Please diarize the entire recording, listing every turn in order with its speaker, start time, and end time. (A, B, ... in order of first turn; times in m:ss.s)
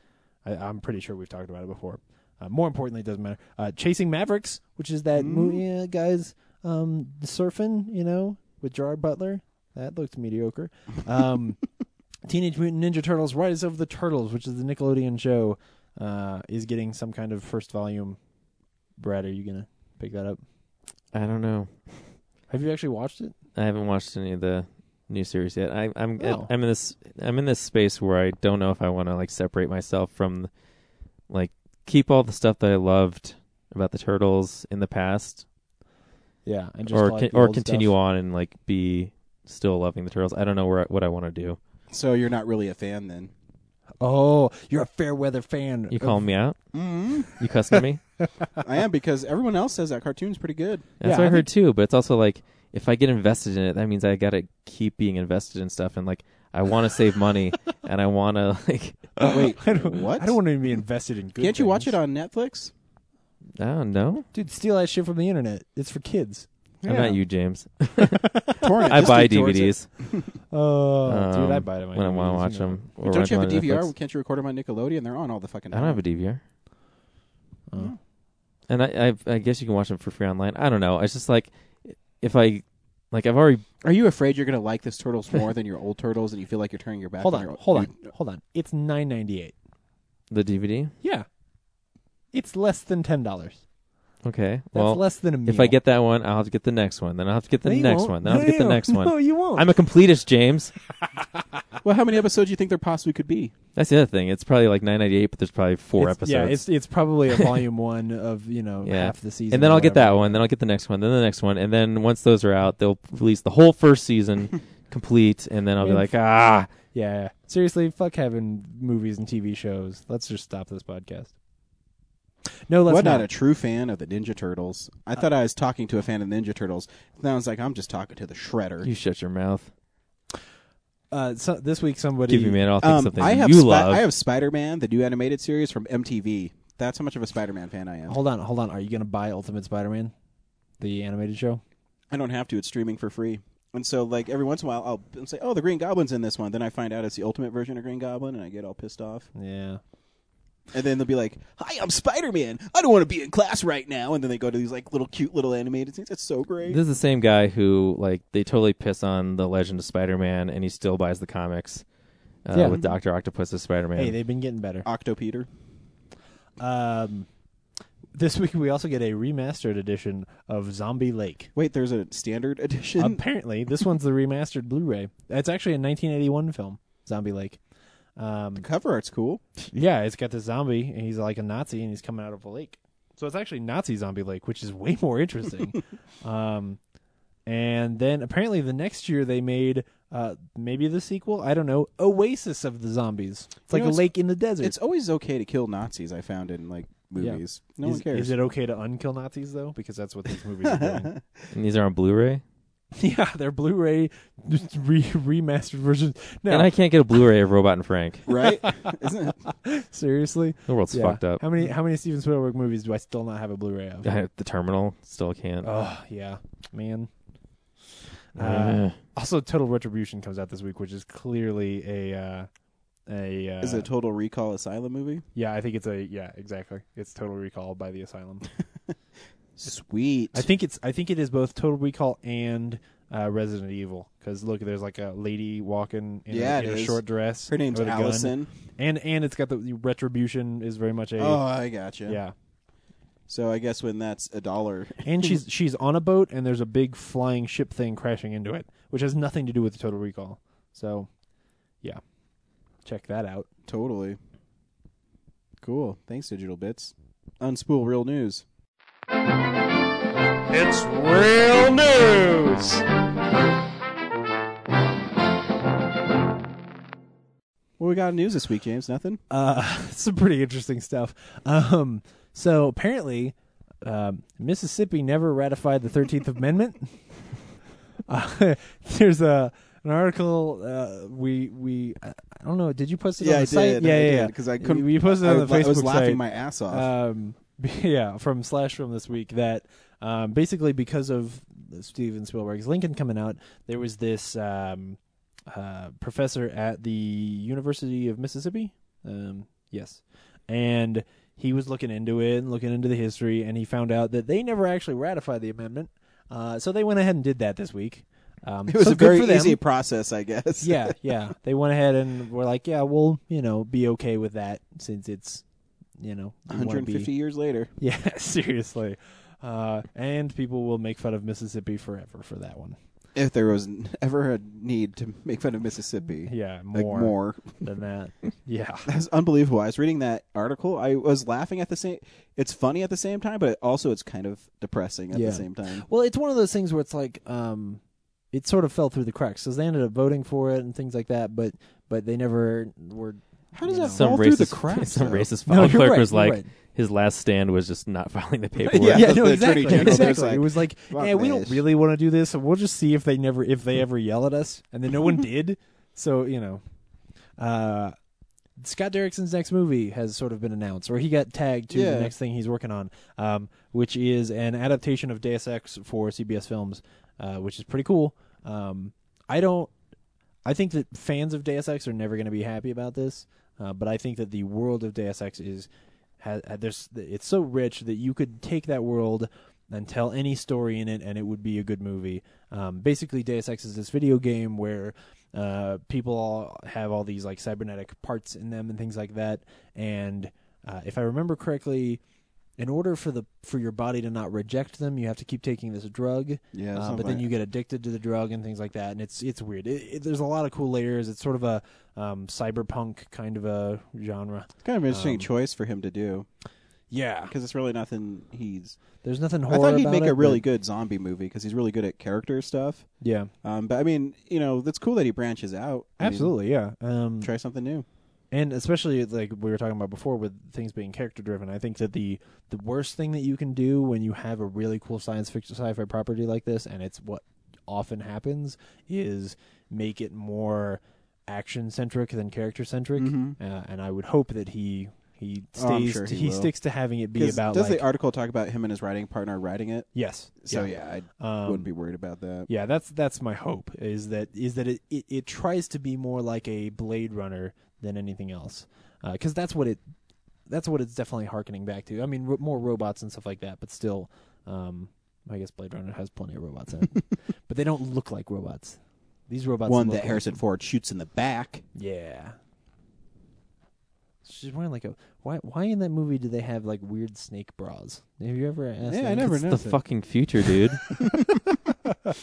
0:00.4-0:11.6 A
0:05.1-0:05.6 B
0:12.2-0:18.2 A
0:19.0-0:20.4 A
0:21.1-0:22.1 C
0:22.5-0:23.3 A
0:23.5-0:30.5 C
0:26.2-0:26.5 A
0:31.3-0:35.4 C
0:36.4-0:37.9 A
0:36.9-0:41.6 C
0:41.9-0:43.3 B
0:44.0-0:46.2 A
0:45.9-0:46.6 C
0:46.7-0:47.3 B
0:47.3-0:48.0 C
0:48.2-0:48.6 A
0:48.6-0:50.9 B
0:51.0-0:59.1 C
0:51.0-0:51.5 A
0:59.2-1:02.0 A
0:59.2-1:00.4 B
1:01.4-1:02.7 B
1:03.6-1:04.2 C
1:04.3-1:07.2 A
1:06.8-1:09.9 C
1:08.2-1:08.6 A
1:08.6-1:10.2 B
1:10.5-1:12.8 A
1:11.1-1:13.9 C
1:13.0-1:16.0 B
1:15.7-1:16.4 C
1:17.7-1:17.9 A
1:18.7-1:23.6 C
1:23.8-1:28.1 B
1:27.2-1:29.5 A
1:30.3-1:30.9 C
1:31.0-1:31.2 A
1:32.3-1:33.6 A
1:34.2-1:40.7 C
1:34.7-1:35.8 A
1:37.6-1:39.6 A
1:41.8-1:43.5 B
1:43.7-1:46.6 C
1:46.0-1:50.4 A
1:47.3-1:47.6 C
1:48.8-1:56.1 C
1:55.8-2:01.3 A
2:02.7-2:03.3 A
2:02.9-2:08.9 B
2:08.8-2:09.7 C
2:11.1-2:12.6 A
2:12.3-2:14.0 C
2:12.8-2:18.2 B
2:18.1-2:20.1 A
2:20.8-2:21.6 A
2:22.1-2:29.3 B
2:29.3-2:29.8 A
2:30.7-2:36.8 B
2:36.7-2:41.8 C
2:42.4-2:44.1 C
2:42.5-2:42.8 A
2:42.6-2:43.0 B
2:44.0-2:44.9 A
2:44.8-2:45.5 B
2:46.6-2:47.3 A
2:48.1-2:51.5 A
2:51.5-2:53.2 B
2:53.0-2:57.6 A
2:58.2-2:58.6 A
2:58.6-2:59.4 B
2:59.7-3:06.8 A
3:07.5-3:14.7 A
3:13.7-3:18.3 B
3:17.2-3:21.1 A
3:20.6-3:21.2 B
3:21.5-3:22.4 C
3:23.0-3:26.7 A
3:26.5-3:28.3 C
3:28.3-3:29.4 B
3:28.6-3:28.9 A
3:29.5-3:34.1 A
3:30.7-3:31.4 C
3:34.0-3:35.7 C
3:35.6-3:37.1 A
3:38.3-3:42.5 A
3:38.4-3:38.9 C
3:43.1-3:43.9 A
3:43.6-3:45.2 B
3:45.3-3:48.5 A
3:49.6-3:50.4 B
3:50.3-4:01.4 A
3:56.3-3:58.5 B
4:01.2-4:02.2 B
4:02.0-4:02.3 A
4:03.3-4:05.4 B
4:05.0-4:11.1 A
4:12.8-4:13.5 A
4:13.6-4:14.2 B
4:15.6-4:18.4 B
4:20.5-4:22.8 D
4:27.8-4:29.2 B
4:29.3-4:37.0 A
4:38.1-4:55.0 A
4:43.2-4:46.9 B
4:55.5-5:09.6 A
5:08.7-5:10.9 B
5:10.6-5:15.4 A
5:16.0-5:17.1 A
5:16.5-5:17.7 B
5:17.8-5:22.8 A
5:23.1-5:27.7 B
5:26.2-5:28.9 A
5:28.8-5:35.8 B
5:35.1-5:37.8 A
5:38.3-5:44.1 A
5:43.5-5:45.3 B
5:43.9-5:50.1 C
5:45.5-5:46.5 A
5:48.6-5:56.6 A
5:48.7-5:51.6 B
5:57.4-5:57.9 A
5:58.6-6:09.7 A
6:01.7-6:02.1 B
6:10.4-6:15.7 A
6:16.2-6:32.0 A
6:32.6-6:45.3 A
6:36.5-6:37.3 B
6:44.6-6:46.3 B
6:46.9-6:47.3 A
6:47.3-6:48.8 B
6:49.0-6:50.4 A
6:49.5-6:52.9 B
6:53.0-6:53.3 A
6:53.4-6:56.3 B
6:56.0-6:57.3 A
6:57.2-6:57.8 B
6:58.3-7:17.8 A
7:13.0-7:13.4 B
7:15.5-7:16.5 B
7:17.1-7:22.5 B
7:19.9-7:21.7 A
7:22.5-7:29.8 A
7:30.5-7:40.4 A
7:39.6-7:41.6 B
7:41.7-7:42.4 A
7:44.2-7:49.5 A
7:48.8-7:49.8 B
7:49.5-7:50.9 C